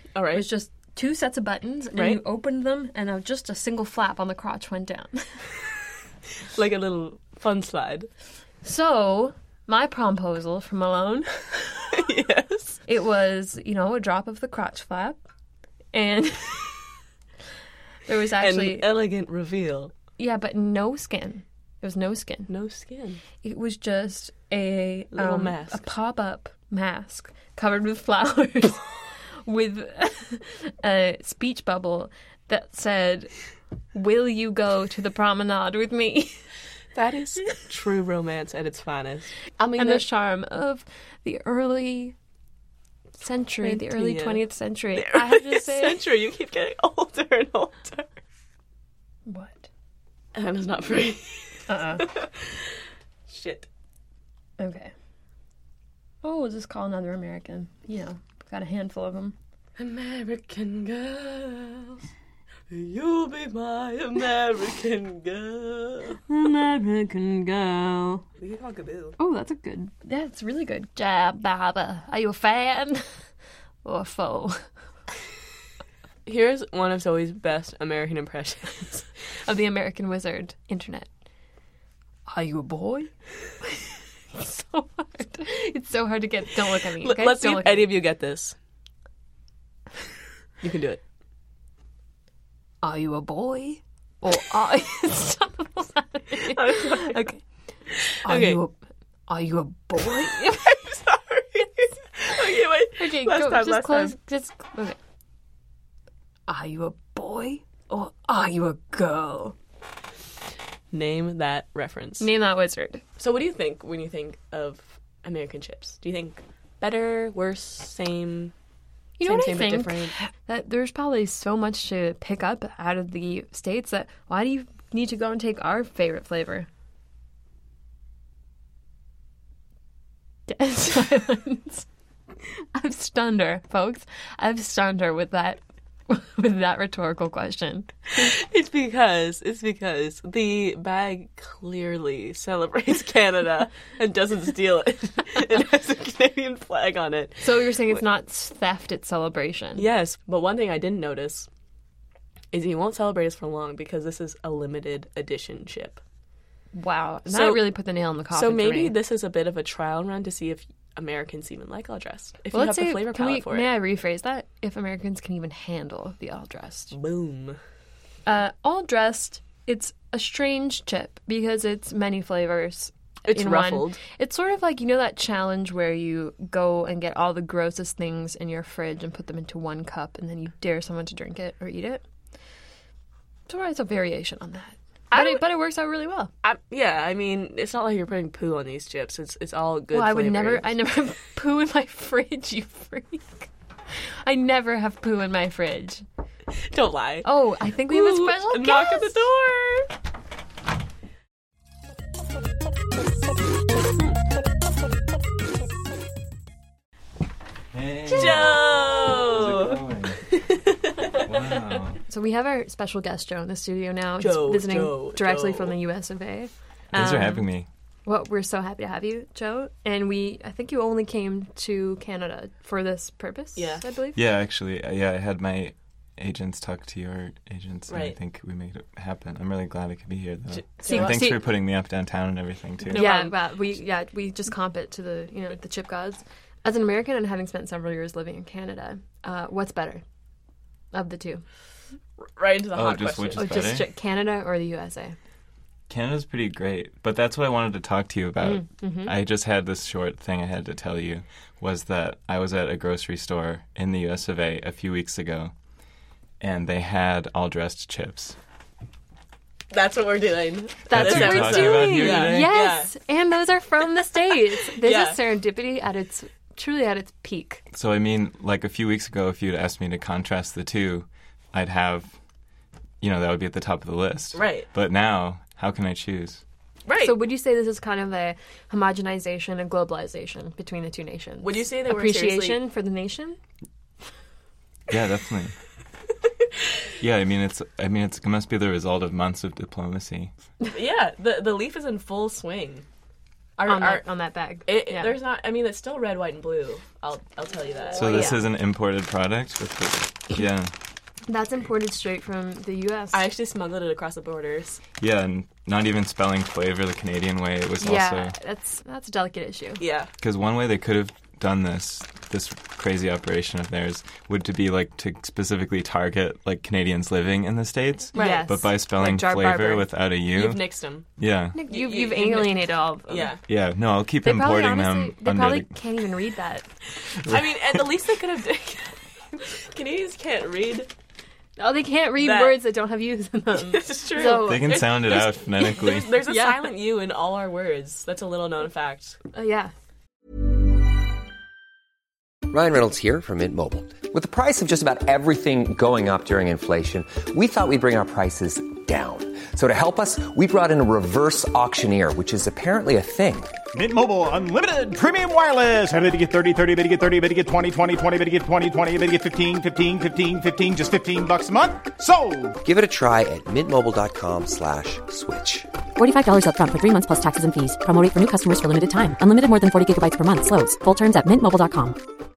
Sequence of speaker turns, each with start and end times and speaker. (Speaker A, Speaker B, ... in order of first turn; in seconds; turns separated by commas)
Speaker A: 0.1-0.5, Speaker B: 0.3-5.4, Speaker A: 1.9-2.2, Speaker A: 6.5-8.1, Speaker B: 8.6-11.7, Speaker A: 11.9-12.8, Speaker B: 12.9-15.2, Speaker B: 15.9-16.8, Speaker B: 18.1-18.9, Speaker A: 18.4-19.9, Speaker B: 20.2-22.5, Speaker A: 22.5-23.2, Speaker B: 23.4-33.3, Speaker A: 25.1-25.8, Speaker B: 33.9-36.4, Speaker A: 36.9-40.0, Speaker B: 39.6-42.1, Speaker B: 43.2-46.0, Speaker A: 43.6-48.1, Speaker B: 49.2-49.7, Speaker A: 50.3-52.7, Speaker B: 51.7-52.1, Speaker A: 53.3-53.7, Speaker B: 54.6-54.9, Speaker B: 56.2-59.4, Speaker A: 59.8-62.0, Speaker A: 62.7-66.2, Speaker B: 66.3-68.2, Speaker A: 68.4-69.2, Speaker B: 69.2-73.1, Speaker B: 73.8-74.7, Speaker A: 76.2-79.1, Speaker B: 79.5-81.1, Speaker B: 82.3-83.1, Speaker B: 84.3-87.9, Speaker A: 87.0-88.5, Speaker A: 90.6-91.0, Speaker B: 92.8-97.4, Speaker A: 96.4-97.2, Speaker A: 97.9-98.6, Speaker B: 98.2-98.8, Speaker B: 99.3-100.8, Speaker A: 100.0-104.2, Speaker B: 103.0-105.0, Speaker B: 106.5-109.5, Speaker A: 110.9-112.3, Speaker B: 112.2-113.0, Speaker A: 113.2-118.5, Speaker B: 119.2-126.7, Speaker A: 119.2-120.2, Speaker B: 130.5-131.8, Speaker B: 132.7-138.1, Speaker A: 138.1-148.0, Speaker B: 147.4-149.9, Speaker A: 149.8-151.5, Speaker A: 152.5-156.0, Speaker B: 156.7-159.0, Speaker A: 157.2-157.7, Speaker A: 158.3-163.7, Speaker B: 162.5-166.9, Speaker A: 166.9-167.6, Speaker B: 168.2-182.0, Speaker A: 173.2-174.0, Speaker B: 183.5-186.3, Speaker A: 185.1-185.4, Speaker A: 186.4-190.7, Speaker B: 189.9-193.5, Speaker B: 194.2-196.0, Speaker A: 196.6-197.3, Speaker B: 197.2-199.2, Speaker A: 197.9-199.9, Speaker C: 207.7-210.2, Speaker A: 208.1-211.0, Speaker C: 211.2-212.0, Speaker B: 212.1-217.5, Speaker A: 214.2-215.7, Speaker C: 216.9-217.7, Speaker B: 218.1-224.2, Speaker A: 223.6-223.9, Speaker C: 224.1-233.0, Speaker A: 227.9-228.2, Speaker A: 230.5-231.2, Speaker B: 230.8-231.5, Speaker A: 232.8-233.3, Speaker B: 232.9-240.0, Speaker B: 240.9-241.4, Speaker A: 242.3-243.7, Speaker C: 242.7-243.9, Speaker B: 243.3-245.1, Speaker C: 245.9-255.5, Speaker B: 248.4-249.1, Speaker C: 256.4-258.4, Speaker A: 259.7-262.9, Speaker B: 260.9-267.6, Speaker C: 260.9-262.5, Speaker A: 264.6-265.2, Speaker C: 267.7-272.1, Speaker C: 273.0-276.4, Speaker A: 274.3-274.7, Speaker A: 276.9-277.2, Speaker B: 277.0-283.4, Speaker A: 281.4-282.6, Speaker C: 284.9-285.5, Speaker C: 287.0-290.3, Speaker A: 290.7-292.8, Speaker A: 293.6-298.3, Speaker B: 293.6-295.1, Speaker B: 297.9-298.5, Speaker C: 298.0-300.7, Speaker B: 301.3-303.2, Speaker A: 303.1-304.8, Speaker C: 305.0-308.3, Speaker B: 307.8-309.8, Speaker A: 309.8-310.1, Speaker C: 310.2-320.6, Speaker B: 318.1-319.9, Speaker A: 318.1-318.6, Speaker A: 320.3-321.1, Speaker C: 321.2-321.6, Speaker B: 321.5-323.4, Speaker A: 321.7-323.4, Speaker C: 323.5-325.7, Speaker B: 324.2-326.6, Speaker C: 327.2-327.9, Speaker A: 327.3-330.9, Speaker B: 331.6-335.2, Speaker A: 332.2-332.6, Speaker A: 333.6-339.2, Speaker C: 334.3-336.1, Speaker B: 335.9-336.7, Speaker B: 339.3-339.7, Speaker D: 342.5-353.5, Speaker E: 353.7-362.6, Speaker D: 362.6-365.7, Speaker F: 365.9-372.0